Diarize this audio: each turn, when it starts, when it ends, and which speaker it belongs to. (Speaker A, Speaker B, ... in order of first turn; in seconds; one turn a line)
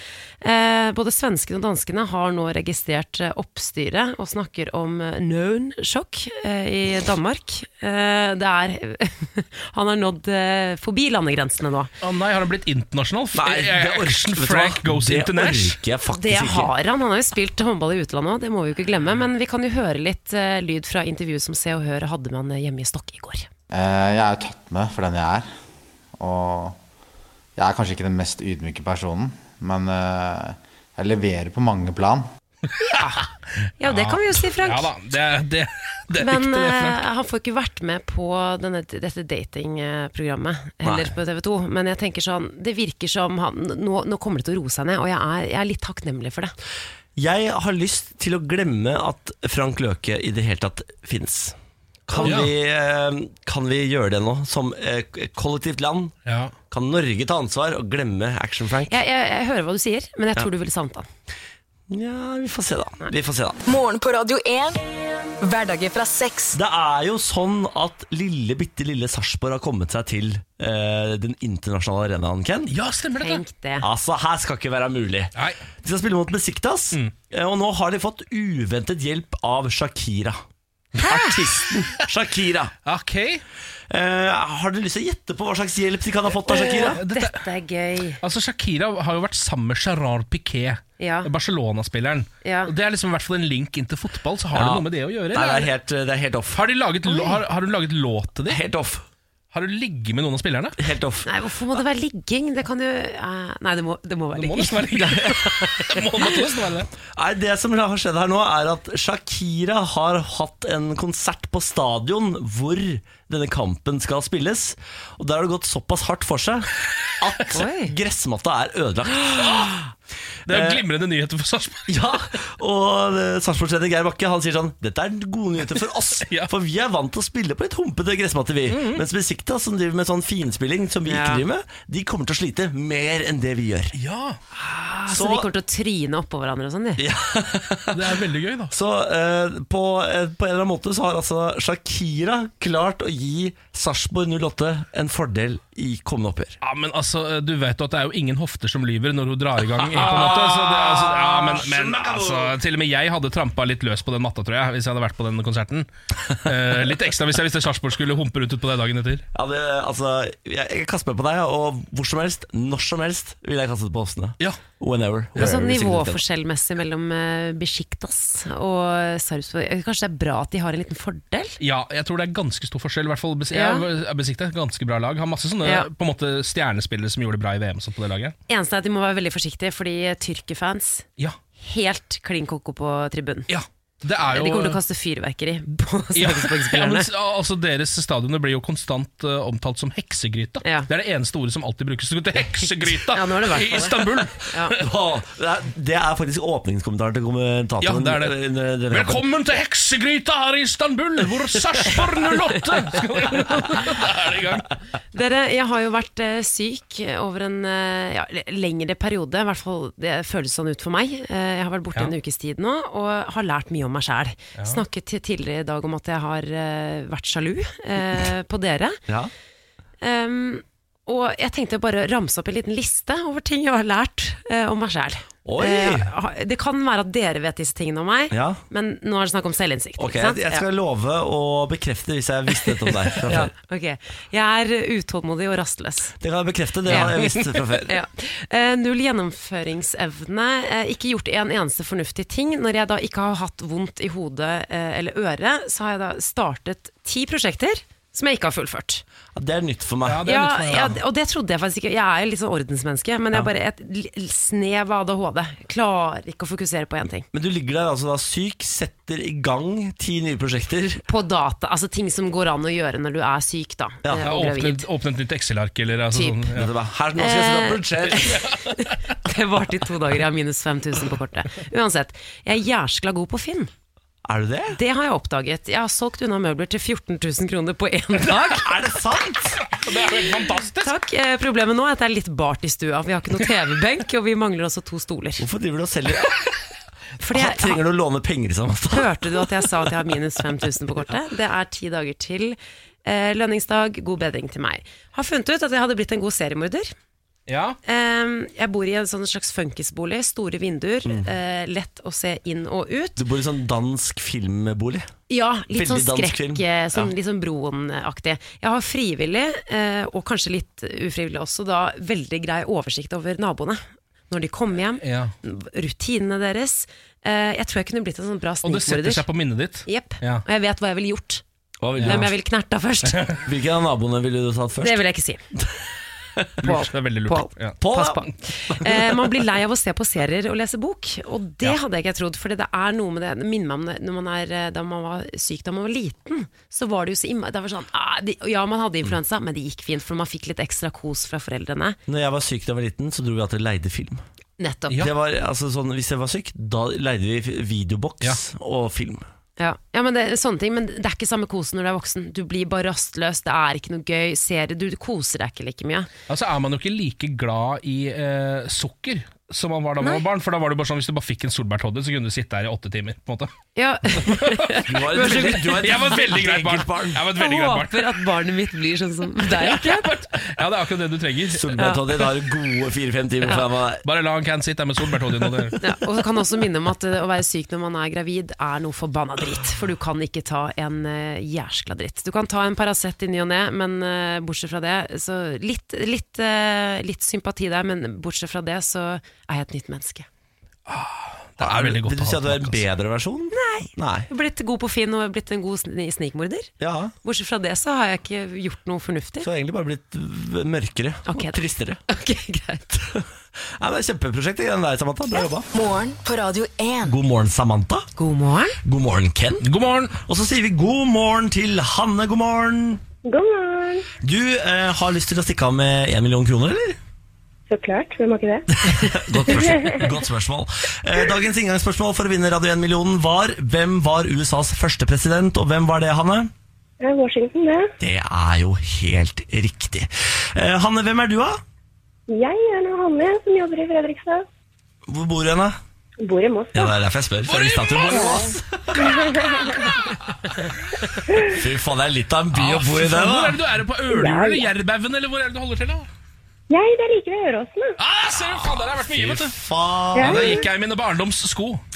Speaker A: 0.4-11.9
Speaker B: 12.0-15.8
Speaker C: 13.3-16.7
Speaker A: 16.1-23.5
Speaker D: 23.7-25.5
Speaker D: 26.2-26.8
Speaker D: 27.6-32.3
Speaker A: 32.8-34.9
Speaker B: 33.8-37.0
Speaker A: 36.2-46.5
Speaker C: 40.8-41.1
Speaker C: 47.2-51.6
Speaker C: 52.1-56.1
Speaker B: 52.2-52.5
Speaker B: 56.3-56.5
Speaker C: 56.7-59.0
Speaker A: 58.9-61.1
Speaker C: 61.9-63.6
Speaker E: 63.7-64.8
Speaker E: 65.4-66.6
Speaker C: 66.5-72.7
Speaker B: 72.7-73.4
Speaker A: 73.2-73.9
Speaker C: 73.8-80.4
Speaker B: 75.3-75.6
Speaker B: 81.0-81.2
Speaker C: 81.0-82.7
Speaker B: 82.8-83.4
Speaker C: 83.9-87.0
Speaker B: 86.5-87.5
Speaker A: 86.5-88.2
Speaker B: 88.2-95.7
Speaker A: 91.0-91.3
Speaker A: 92.4-92.7
Speaker C: 94.5-96.6
Speaker B: 96.5-98.6
Speaker A: 97.1-97.4
Speaker C: 98.5-99.0
Speaker B: 99.5-100.8
Speaker C: 100.8-101.3
Speaker A: 101.3-106.5
Speaker B: 104.3-106.9
Speaker C: 107.2-119.8
Speaker A: 117.5-118.0
Speaker B: 119.3-119.7
Speaker B: 120.5-122.0
Speaker C: 120.5-120.8
Speaker C: 121.9-134.0
Speaker B: 126.2-126.5
Speaker B: 128.7-129.0
Speaker A: 131.1-131.4
Speaker B: 133.9-134.4
Speaker A: 134.6-137.0
Speaker C: 135.1-135.5
Speaker C: 137.0-138.1
Speaker B: 137.9-138.7
Speaker C: 138.7-146.6
Speaker B: 146.6-159.2
Speaker C: 149.8-152.6
Speaker C: 159.3-166.2
Speaker A: 165.4-171.6
Speaker B: 171.6-178.3
Speaker A: 173.5-173.9
Speaker A: 175.6-175.9
Speaker A: 178.5-181.1
Speaker A: 181.6-183.5
Speaker B: 183.5-184.8
Speaker A: 184.3-187.1
Speaker B: 186.2-194.8
Speaker A: 190.6-190.9
Speaker A: 192.6-194.8
Speaker C: 194.8-199.2
Speaker B: 197.8-198.4
Speaker B: 198.9-204.7
Speaker A: 205.1-219.0
Speaker B: 214.6-214.8
Speaker A: 220.0-230.7
Speaker C: 225.4-226.1
Speaker C: 228.3-228.6
Speaker C: 230.0-233.5
Speaker A: 232.7-236.2
Speaker C: 236.2-237.9
Speaker A: 236.9-237.2
Speaker A: 237.9-249.0
Speaker C: 249.3-250.3
Speaker B: 250.1-251.0
Speaker A: 250.2-257.3
Speaker C: 257.3-261.0
Speaker A: 261.1-264.9
Speaker C: 264.0-264.3
Speaker B: 264.2-266.7
Speaker A: 266.1-266.5
Speaker C: 266.5-268.4
Speaker A: 267.2-273.7
Speaker B: 268.4-268.9
Speaker C: 274.2-274.8
Speaker A: 274.7-278.7
Speaker C: 278.5-279.6
Speaker B: 279.7-281.0
Speaker A: 280.8-285.4
Speaker C: 285.4-286.4
Speaker A: 287.2-287.8
Speaker C: 287.3-289.5
Speaker A: 288.9-296.9
Speaker B: 297.5-297.8
Speaker A: 297.9-303.2
Speaker C: 303.2-305.1
Speaker A: 305.3-319.3
Speaker C: 305.7-307.1
Speaker B: 315.0-315.3
Speaker B: 318.6-320.4
Speaker A: 319.9-321.4
Speaker C: 321.8-322.3
Speaker B: 322.0-322.3
Speaker A: 322.0-323.4
Speaker B: 323.1-323.4
Speaker C: 323.4-325.0
Speaker A: 324.8-325.4
Speaker B: 326.6-327.8
Speaker A: 326.6-342.0
Speaker C: 327.8-329.2
Speaker C: 342.1-344.2
Speaker A: 344.6-345.1
Speaker C: 345.0-349.2
Speaker A: 349.6-356.1
Speaker B: 356.3-363.5
Speaker A: 363.8-366.0
Speaker B: 364.2-368.2
Speaker C: 364.8-367.2
Speaker A: 367.3-370.1
Speaker B: 369.5-371.9
Speaker C: 371.5-374.0
Speaker A: 371.8-372.3
Speaker B: 374.0-375.8
Speaker A: 375.8-390.3
Speaker B: 390.9-392.9
Speaker C: 391.6-394.3
Speaker A: 393.5-396.7
Speaker C: 396.8-397.1
Speaker A: 397.2-399.5
Speaker C: 399.4-402.0
Speaker A: 401.3-402.9
Speaker C: 402.9-403.2
Speaker C: 403.8-405.7
Speaker E: 405.7-407.2
Speaker C: 407.1-408.1
Speaker A: 408.2-408.8
Speaker C: 408.8-413.0
Speaker B: 409.6-410.2
Speaker F: 413.2-414.1
Speaker C: 414.2-417.0
Speaker F: 417.7-420.1
Speaker C: 418.8-426.5
Speaker F: 427.0-427.9
Speaker C: 428.0-431.6
Speaker F: 432.3-434.4
Speaker C: 435.1-435.8
Speaker F: 436.2-436.9
Speaker C: 436.7-439.4
Speaker B: 437.5-438.4
Speaker F: 438.1-439.9
Speaker C: 441.4-443.6
Speaker B: 442.5-446.1
Speaker F: 444.1-444.6
Speaker F: 446.7-448.0
Speaker B: 448.0-449.6
Speaker C: 448.9-450.6
Speaker F: 450.1-450.6
Speaker B: 450.2-451.8